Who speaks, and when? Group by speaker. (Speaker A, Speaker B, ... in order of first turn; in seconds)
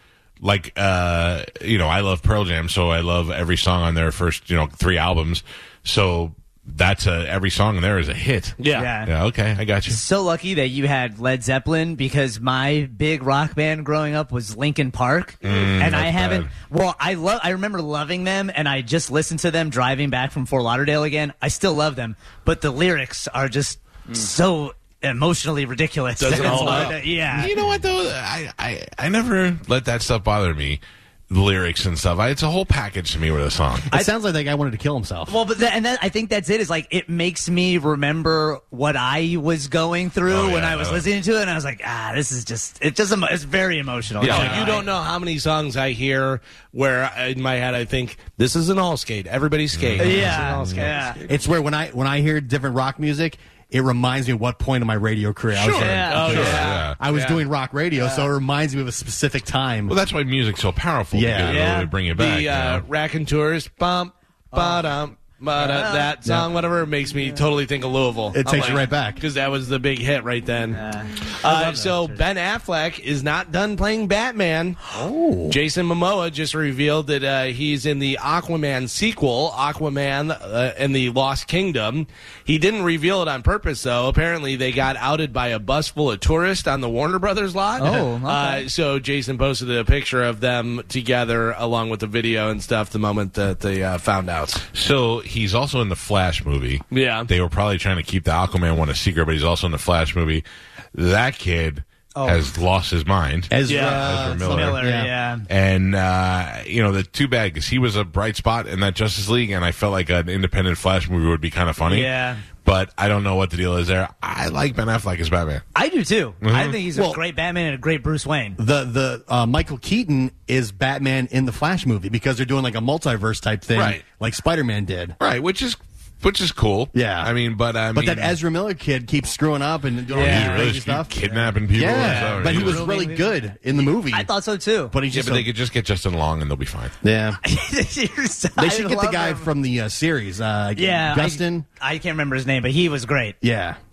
Speaker A: 0.4-10.0, 15.4-16.5, 26.7-33.9, 40.3-41.0, 44.2-44.8, 49.7-50.9, 55.6-57.0, 59.9-62.9, 94.7-104.9, 105.5-115.6, 116.4-116.8, 125.2-128.4, 130.1-132.8, 135.1-136.9
Speaker B: 8.6-8.9, 26.2-27.0, 44.2-51.2, 55.8-57.4, 62.1-74.8, 75.5-94.7, 96.9-97.3, 103.7-104.1
Speaker C: 8.8-9.1, 9.9-27.5, 35.3-44.9, 50.0-51.2, 55.7-56.8, 61.4-61.9, 64.5-64.9, 65.5-66.1, 70.7-72.2, 87.8-88.7, 102.2-102.5, 103.7-105.5, 111.9-112.4, 115.8-118.6, 130.1-130.8, 131.8-135.0, 137.4-139.5, 140.8-143.4
Speaker D: 26.4-26.8, 33.9-35.4, 51.3-60.0, 61.1-61.7, 68.3-69.2, 71.5-71.8, 74.9-75.6, 103.5-105.1, 116.9-117.2, 118.6-125.2, 126.9-127.3, 127.9-131.2, 131.7-134.3, 134.9-135.5, 137.0-137.4, 138.6-141.7, 143.4-143.8